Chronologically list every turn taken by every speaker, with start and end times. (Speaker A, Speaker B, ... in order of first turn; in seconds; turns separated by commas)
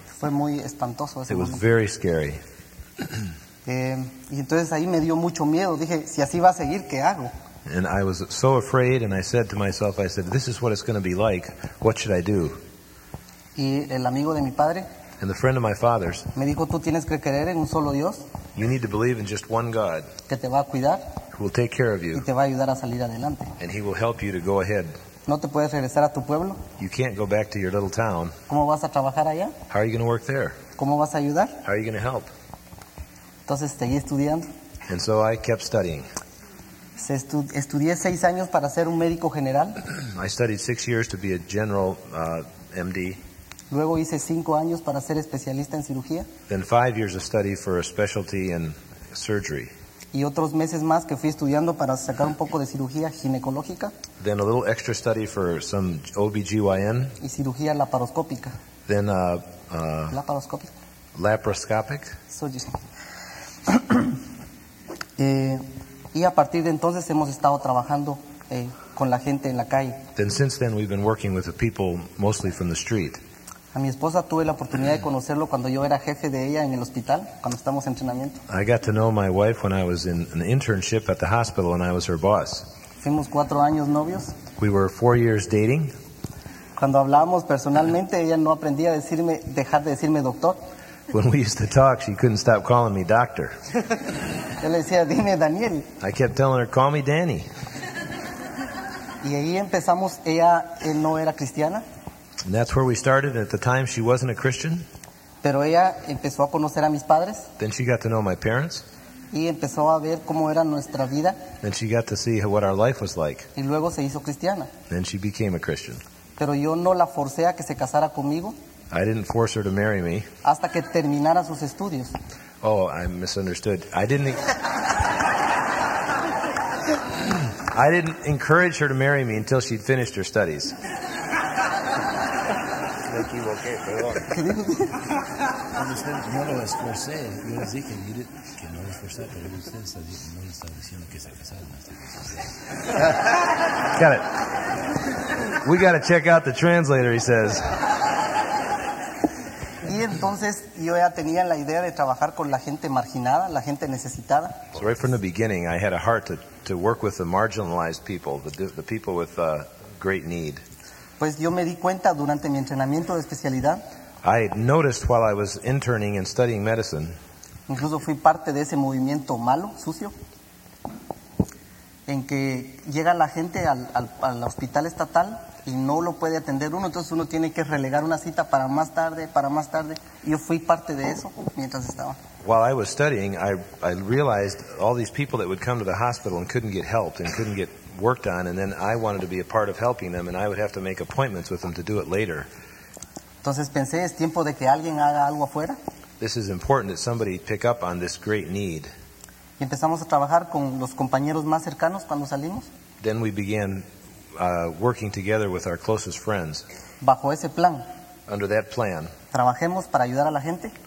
Speaker A: 0.2-1.6, Speaker B: 1.3-2.4, Speaker A: 3.6-7.3, Speaker B: 7.7-12.6, Speaker A: 13.6-14.9, Speaker B: 15.2-16.3, Speaker A: 16.3-18.2, Speaker B: 18.5-20.1, Speaker A: 20.3-21.2, Speaker B: 21.3-22.2, Speaker A: 22.1-23.5, Speaker B: 23.6-24.9, Speaker A: 25.3-26.7, Speaker B: 26.8-28.4, Speaker A: 28.5-29.6, Speaker B: 29.7-30.6, Speaker A: 30.8-31.6, Speaker B: 31.6-32.3, Speaker A: 33.5-34.5, Speaker B: 34.9-36.1, Speaker A: 37.0-39.8, Speaker B: 40.1-43.2, Speaker A: 43.7-46.3, Speaker B: 46.5-49.7, Speaker A: 50.1-53.9, Speaker B: 54.2-57.2, Speaker A: 57.2-58.5, Speaker B: 58.9-60.1, Speaker A: 60.1-60.7, Speaker B: 61.1-62.1, Speaker A: 62.3-62.8, Speaker A: 63.7-64.0, Speaker A: 65.2-70.0, Speaker B: 70.2-73.2, Speaker A: 73.7-78.4, Speaker B: 78.5-82.7, Speaker A: 83.0-84.3, Speaker B: 84.6-85.9, Speaker A: 86.8-90.6, Speaker B: 91.1-93.6, Speaker A: 94.6-95.9, Speaker B: 96.0-97.5, Speaker A: 99.2-101.8, Speaker B: 102.4-104.8, Speaker A: 105.4-107.5, Speaker B: 107.6-108.8, Speaker A: 109.3-111.5, Speaker B: 111.6-113.5, Speaker A: 113.5-114.7, Speaker B: 114.9-116.0, Speaker A: 116.4-118.5, Speaker B: 118.9-120.3, Speaker A: 120.4-122.2, Speaker B: 122.6-124.6, Speaker B: 127.2-130.8, Speaker C: 133.1-134.2, Speaker A: 134.3-135.0, Speaker C: 135.7-142.6, Speaker B: 143.9-144.4, Speaker B: 145.6-147.8, Speaker A: 149.8-154.7, Speaker B: 154.7-160.6, Speaker A: 161.2-163.8, Speaker B: 164.2-167.1, Speaker A: 167.7-170.1, Speaker A: 172.1-182.2, Speaker B: 182.4-192.5, Speaker A: 193.4-195.8, Speaker B: 196.2-198.9, Speaker A: 199.6-202.7, Speaker B: 203.0-206.7, Speaker A: 207.0-207.8, Speaker B: 208.3-209.1, Speaker A: 209.3-210.7